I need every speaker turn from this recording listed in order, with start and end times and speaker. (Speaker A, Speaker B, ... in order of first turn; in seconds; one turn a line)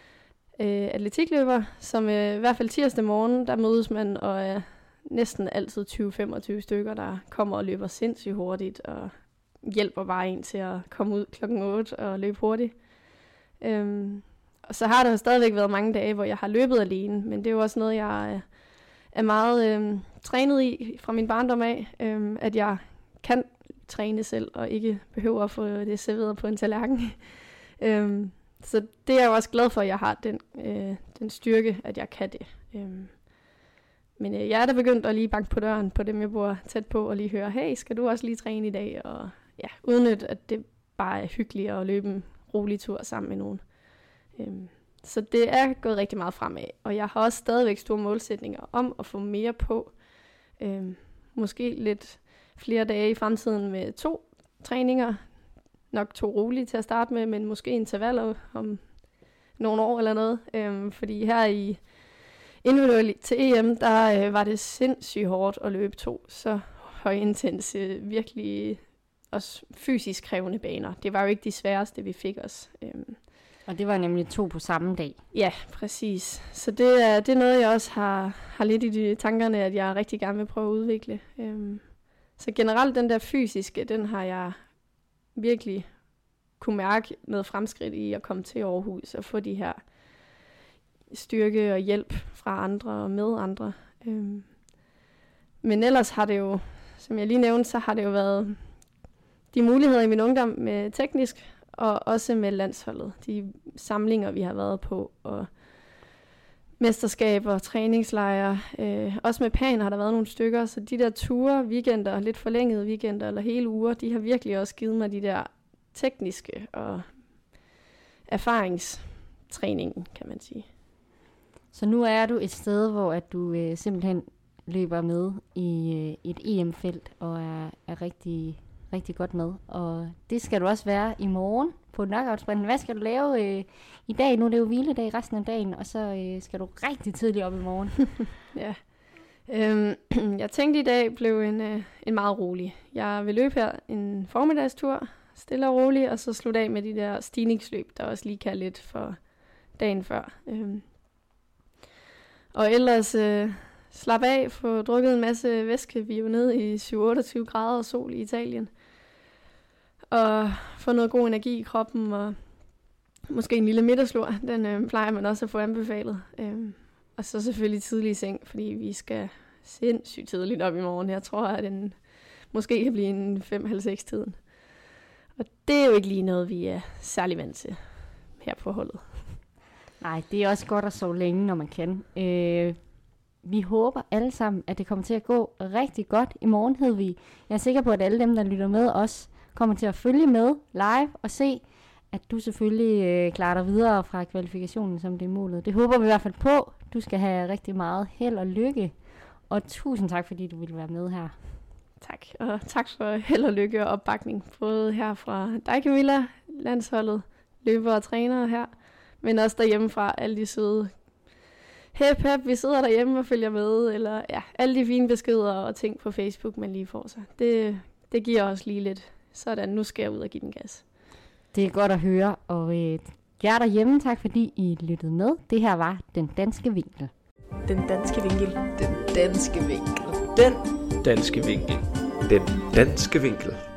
Speaker A: 0.6-12.8
Speaker A: 13.6-18.5
Speaker A: 19.1-27.3
Speaker A: 27.8-33.2
Speaker A: 34.2-43.6
Speaker A: 44.4-50.0
Speaker A: 50.6-55.3
Speaker A: 55.9-59.0
Speaker A: 59.6-61.8
Speaker A: 62.6-73.2
Speaker B: 73.7-75.2
Speaker A: 75.3-84.6
Speaker A: 85.3-85.9
Speaker A: 86.6-89.8
Speaker A: 91.1-94.5
Speaker A: 95.6-98.6
Speaker A: 99.5-105.5
Speaker A: 106.8-117.6
Speaker A: 118.3-120.7
Speaker B: 121.7-138.2
Speaker A: 138.5-138.8
Speaker A: 139.5-149.2
Speaker A: 149.7-150.9
Speaker A: 152.5-158.7
Speaker A: 160.1-162.4
Speaker A: 163.3-172.0
Speaker A: 172.5-174.4
Speaker A: 175.4-177.8
Speaker A: 178.4-179.2
Speaker B: 180.0-182.8
Speaker B: 183.4-198.9
Speaker B: 199.5-201.3
Speaker A: 202.0-211.0
Speaker A: 211.9-220.8
Speaker B: 221.5-227.1
Speaker C: 227.7-230.6
Speaker D: 231.0-233.6